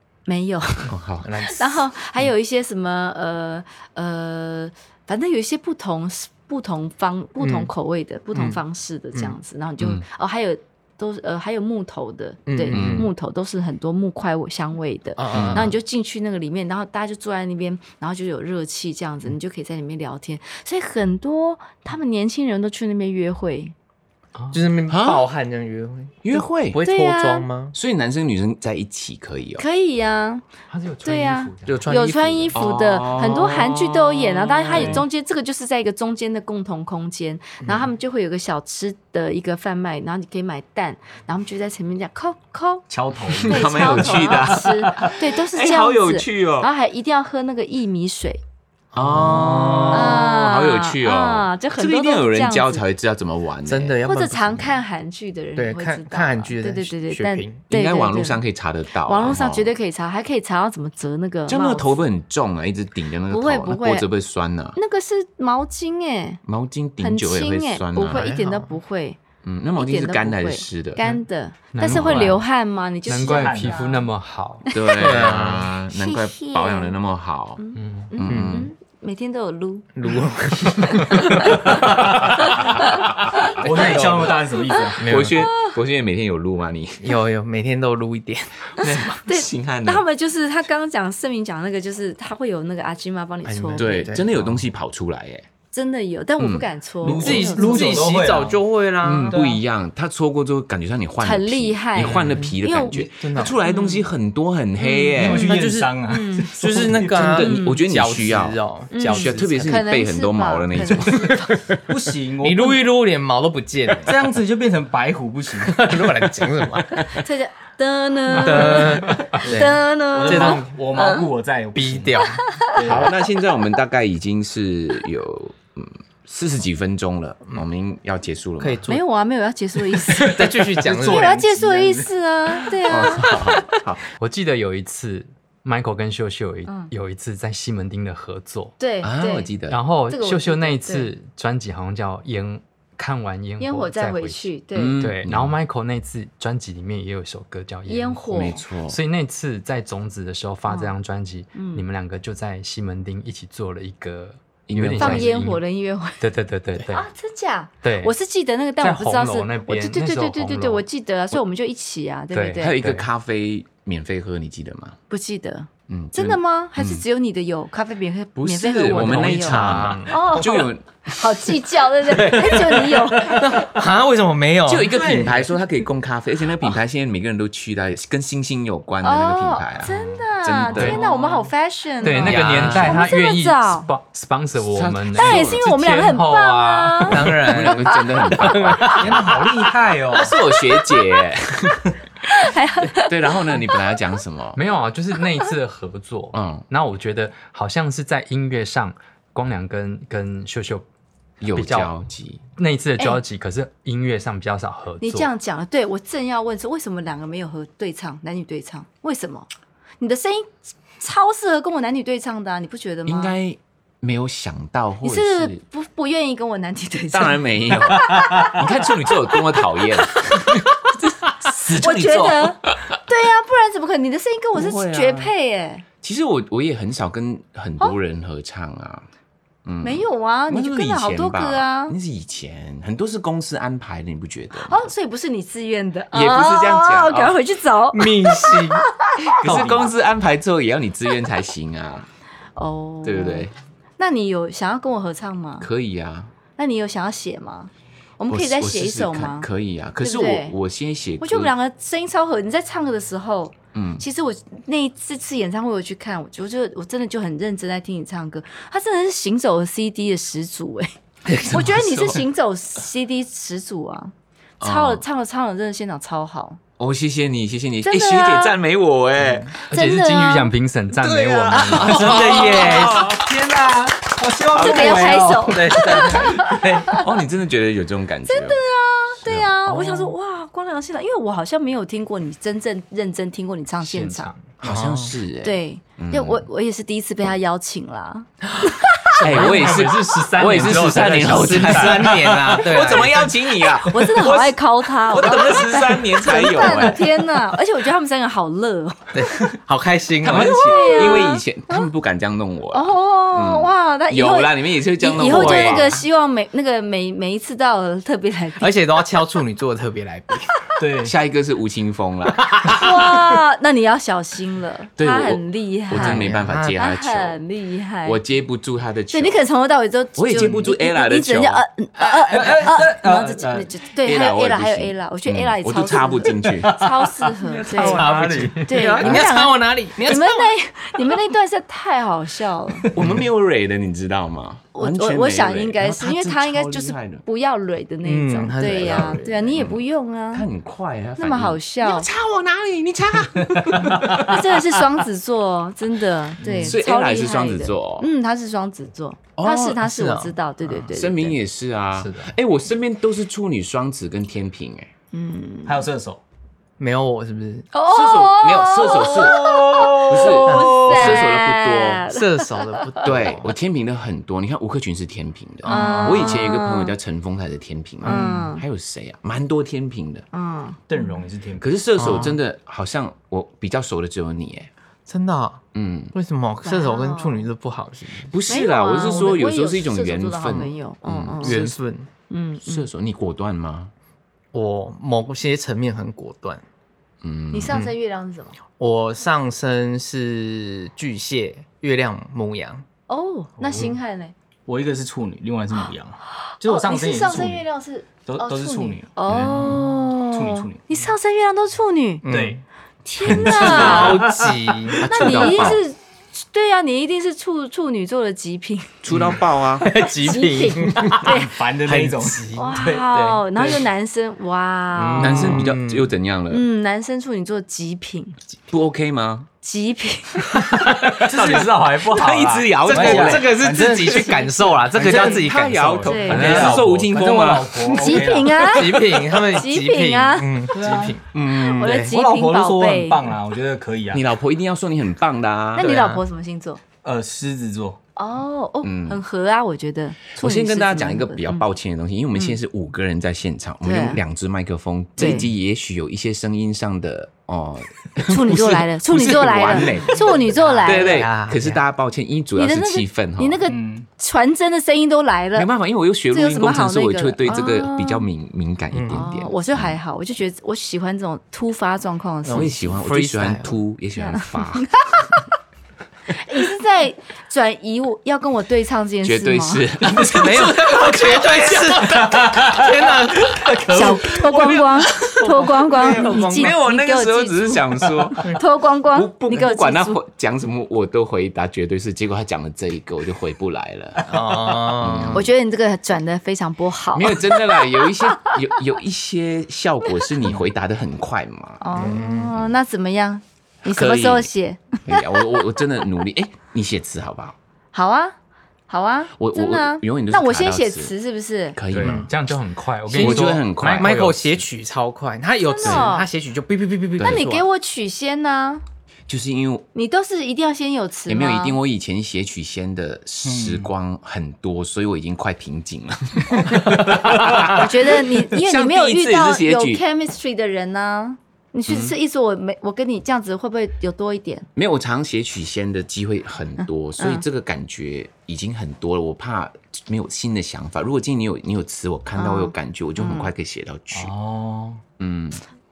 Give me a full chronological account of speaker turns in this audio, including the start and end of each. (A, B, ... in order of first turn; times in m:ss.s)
0:00.3-0:23.7 A
0:00.8-0:01.4 B
0:01.2-0:01.7 C
0:07.4-0:07.7 C
0:08.3-0:08.6 C
0:12.5-0:13.1 C
0:12.7-0:13.1 B
0:15.2-0:15.7 C
0:15.3-0:15.7 B
0:24.4-0:24.6 D
0:24.5-0:27.7 C
0:24.9-0:25.2 B
0:26.2-0:26.8 B
0:26.8-0:27.5 A
0:27.7-0:29.6 B
0:29.6-0:30.4 A
0:30.7-0:31.9 D
0:31.0-0:42.8 A
0:31.6-0:35.0 B
0:42.9-0:45.1 E
0:43.4-0:48.4 A
0:43.4-0:46.7 B
0:48.9-0:50.2 C
0:49.0-0:54.0 B
0:49.9-0:52.8 A
0:53.6-0:54.8 C
0:54.0-0:58.4 A
0:55.6-0:57.6 C
0:57.7-0:59.7 B
0:59.0-1:01.9 A
1:01.5-1:04.8 B
1:03.3-1:04.1 A
1:04.7-1:06.4 A
1:06.4-1:08.3 B
1:07.0-1:09.2 A
1:08.0-1:08.7 C
1:09.4-1:11.0 B
1:09.8-1:14.0 A
1:11.7-1:12.4 D
1:11.8-1:12.4 B
1:13.0-1:14.6 D
1:13.1-1:13.9 E
1:14.7-1:15.3 A
1:14.7-1:17.6 B
1:15.0-1:15.8 C
1:15.9-1:17.0 A
1:17.6-1:20.1 A
1:17.8-1:18.1 D
1:18.1-1:18.7 B
1:18.2-1:18.7 C
1:19.9-1:22.1 C
1:20.7-1:23.4 A
1:21.7-1:22.4 E
1:23.5-1:24.3 B
1:23.6-1:25.1 E
1:23.6-1:24.3 C
1:24.6-1:25.5 A
1:25.0-1:25.4 C
1:25.0-1:27.1 B
1:27.0-1:28.7 C
1:28.8-1:30.0 B
1:28.8-1:34.1 A
1:33.4-1:34.7 C
1:33.8-1:35.5 B
1:35.7-1:38.1 A
1:36.4-1:36.7 B
1:37.0-1:38.6 E
1:37.0-1:39.4 C
1:39.0-1:45.5 B
1:39.3-1:39.6 E
1:41.2-1:44.1 A
1:43.0-1:43.6 C
1:44.8-1:46.5 A
1:45.2-1:47.3 E
1:45.2-1:49.8 C
1:47.1-1:51.8 B
1:47.2-1:47.8 A
1:48.9-1:51.6 A
1:51.9-1:52.8 E
1:52.4-1:54.2 C
1:54.0-1:55.9 E
1:55.6-1:57.1 C
1:57.1-2:01.2 A
1:58.3-2:00.8 C
1:59.4-2:03.1 E
2:01.7-2:02.4 C
2:02.4-2:02.7 A
2:02.8-2:08.9 B
2:08.6-2:09.0 C
2:08.9-2:13.5 A
2:10.1-2:12.1 E
2:10.2-2:11.3 C
2:12.8-2:14.0 B
2:14.2-2:18.7 D
2:18.8-2:19.5 A
2:19.0-2:19.8 B
2:19.7-2:35.6 D
2:20.1-2:21.1 A
2:23.6-2:25.0 A
2:24.7-2:25.6 B
2:27.9-2:28.6 A
2:28.3-2:29.0 B
2:30.7-2:30.9 A
2:31.5-2:31.8 A
2:34.7-2:35.3 B
2:35.0-2:36.2 A
2:36.2-2:37.0 D
2:36.8-2:42.8 A
2:37.8-2:38.1 D
2:38.8-2:40.8 D
2:42.3-2:43.0 D
2:42.6-2:45.0 B
2:45.1-2:53.6 A
2:45.9-2:47.0 B
2:48.4-2:50.8 B
2:48.9-2:50.2 D
2:52.1-2:55.4 C
2:54.6-3:01.0 B
2:54.9-2:55.3 E
2:59.0-3:03.9 A
3:00.7-3:01.0 D
3:02.0-3:07.6 D
3:02.2-3:03.0 B
3:02.3-3:02.8 C
3:04.6-3:05.6 B
3:05.1-3:07.3 A
3:07.0-3:09.5 C
3:07.4-3:09.3 B
3:07.9-3:08.9 A
3:08.8-3:10.4 E
3:10.1-3:11.9 B
3:10.5-3:11.2 A
3:12.2-3:14.0 A
3:12.9-3:14.6 B
3:14.5-3:20.8 D
3:16.3-3:16.6 B
3:21.4-3:22.4 B
3:21.4-3:21.9 D
3:22.6-3:25.3 D
3:25.0-3:29.5 A
3:30.0-3:33.3 A
3:33.0-3:35.6 B
3:35.0-3:38.6 A
3:37.1-3:43.0 B
3:39.3-3:40.7 A
3:41.3-3:45.8 A
3:44.5-3:45.3 B
3:46.0-3:49.0 B
3:49.6-3:54.9 B
3:49.8-3:52.0 A
3:54.6-3:59.7 A
3:56.1-3:57.4 B
3:57.9-3:58.9 C
3:59.3-4:02.1 B
3:59.4-3:59.8 C
4:02.6-4:05.7 A
4:03.0-4:03.5 B
4:05.6-4:06.3 B
4:06.6-4:09.5 A
4:08.3-4:11.5 B
4:10.0-4:10.6 A
4:11.2-4:26.6 A
4:13.7-4:14.0 B
4:21.2-4:22.2 B
4:24.6-4:25.0 B
4:26.8-4:29.5 B
4:27.8-4:28.6 A
4:29.6-4:30.5 A
4:29.7-4:32.2 D
4:31.0-4:33.2 B
4:31.5-4:31.9 A
4:31.6-4:37.0 E
4:31.8-4:33.1 C
4:32.6-4:32.9 A
4:34.5-4:38.6 B
4:34.5-4:37.1 A
4:35.8-4:36.3 C
4:38.3-4:44.3 A
4:39.2-4:40.1 B
4:43.8-4:44.4 D
4:44.6-4:46.4 B
4:44.6-4:45.2 C
4:45.4-4:49.1 A
4:49.2-4:52.4 D
4:49.2-4:57.1 B
4:51.1-4:53.3 C
4:53.6-4:59.5 A
4:59.1-5:01.2 C
5:00.2-5:06.0 B
5:00.2-5:01.9 A
5:02.7-5:08.7 A
5:05.2-5:06.0 C
5:08.6-5:10.6 C
5:10.8-5:11.1 E
5:11.0-5:13.1 B
5:12.7-5:18.2 A
5:15.0-5:17.4 B
5:15.9-5:16.8 C
5:18.0-5:19.4 B
5:19.1-5:32.9 A
5:20.2-5:21.6 B
5:22.2-5:23.7 E
5:24.0-5:26.8 B
5:26.4-5:28.6 E
5:27.7-5:30.5 C
5:27.8-5:28.7 D
5:32.9-5:37.2 B
5:33.0-5:33.2 C
5:34.7-5:40.5 A
5:38.0-5:39.6 C
5:38.6-5:44.7 B
5:41.2-5:42.1 A
5:44.0-5:51.4 A
5:46.5-5:48.1 B
5:49.4-5:49.8 B
5:49.8-5:50.3 C
5:50.9-5:54.9 B
5:52.0-5:52.3 C
5:55.1-5:55.9 A
5:55.6-5:56.2 E
5:56.8-5:57.7 C
5:57.7-6:03.1 A
5:57.9-6:02.0 B
5:59.5-6:00.0 E
6:00.4-6:01.2 C
6:02.1-6:03.5 C
6:03.0-6:10.2 B
6:05.6-6:06.3 C
6:05.6-6:06.9 A
6:08.0-6:08.5 C
6:08.0-6:08.6 A
6:10.3-6:10.8 A
6:10.9-6:11.6 E
6:11.6-6:14.7 B
6:12.0-6:12.4 C
6:15.1-6:18.3 C
6:15.7-6:16.1 B
6:16.6-6:17.5 A
6:18.2-6:21.7 B
6:18.5-6:21.7 A
6:21.4-6:22.1 C
6:22.3-6:22.9 A
6:22.6-6:23.9 B
6:24.5-6:26.6 C
6:27.2-6:27.8 B
6:27.5-6:28.6 A
6:28.8-6:32.8 C
6:33.1-6:34.3 A
6:34.7-6:37.6 E
6:36.4-6:42.3 A
6:38.2-6:40.8 E
6:39.3-6:39.7 B
6:42.2-6:42.6 C
6:42.3-6:42.6 E
6:43.0-6:44.2 A
6:43.2-6:44.2 B
6:43.2-6:45.8 C
6:43.4-6:45.4 E
6:45.0-6:49.0 A
6:45.1-6:45.8 B
6:49.0-6:49.9 B
6:49.1-6:52.8 C
6:49.9-6:51.5 A
6:51.1-6:53.8 E
6:52.5-6:55.7 A
6:54.9-6:56.1 C
6:55.2-6:56.6 B
6:56.5-6:58.4 A
6:58.7-6:59.5 B
6:59.6-7:00.8 A
7:00.8-7:08.8 E
7:01.3-7:04.4 B
7:02.8-7:06.9 C
7:05.0-7:08.1 B
7:06.0-7:06.7 A
7:07.9-7:10.8 A
7:08.6-7:12.1 C
7:10.7-7:14.2 E
7:11.3-7:13.3 A
7:14.1-7:15.8 B
7:15.7-7:16.8 A
7:15.8-7:16.2 C
7:15.8-7:16.2 E
7:17.0-7:18.0 E
7:18.2-7:21.6 A
7:18.8-7:19.2 B
7:20.3-7:33.7 B
7:23.8-7:24.2 A
7:25.2-7:25.5 A
7:28.2-7:31.3 A
7:30.6-7:31.8 C
7:32.5-7:35.7 A
7:33.7-7:34.1 E
7:35.5-7:40.0 B
7:36.3-7:38.2 A
7:38.9-7:39.3 C
7:39.1-7:42.7 A
7:42.4-7:43.8 C
7:42.5-7:45.0 B
7:44.2-7:44.9 A
7:46.3-7:49.8 A
7:49.2-7:52.1 B
7:50.2-7:56.8 C
7:51.9-7:54.8 E
7:53.9-8:00.2 A
7:56.1-8:04.3 B
8:04.2-8:05.5 C
8:04.8-8:05.5 B
8:05.3-8:08.1 A
8:07.1-8:12.1 B
8:11.8-8:15.7 A
8:11.9-8:12.6 C
8:13.8-8:14.5 B
8:15.0-8:17.6 B
8:17.9-8:18.4 A
8:18.9-8:21.8 A
8:19.4-8:21.1 B
8:21.7-8:22.3 B
8:21.9-8:24.4 D
8:22.0-8:22.3 C
8:23.1-8:27.6 C
8:23.1-8:24.6 B
8:25.6-8:26.3 A
8:25.8-8:26.1 B
8:27.2-8:28.8 A
8:29.3-8:29.9 B
8:29.9-8:31.8 A
8:31.3-8:40.0 B
8:33.4-8:33.9 E
8:37.6-8:44.7 A
8:41.9-8:42.1 B
8:44.7-8:54.3 B
8:46.8-8:47.4 A
8:52.3-8:53.5 A
8:54.1-8:55.0 E
8:55.2-8:55.6 B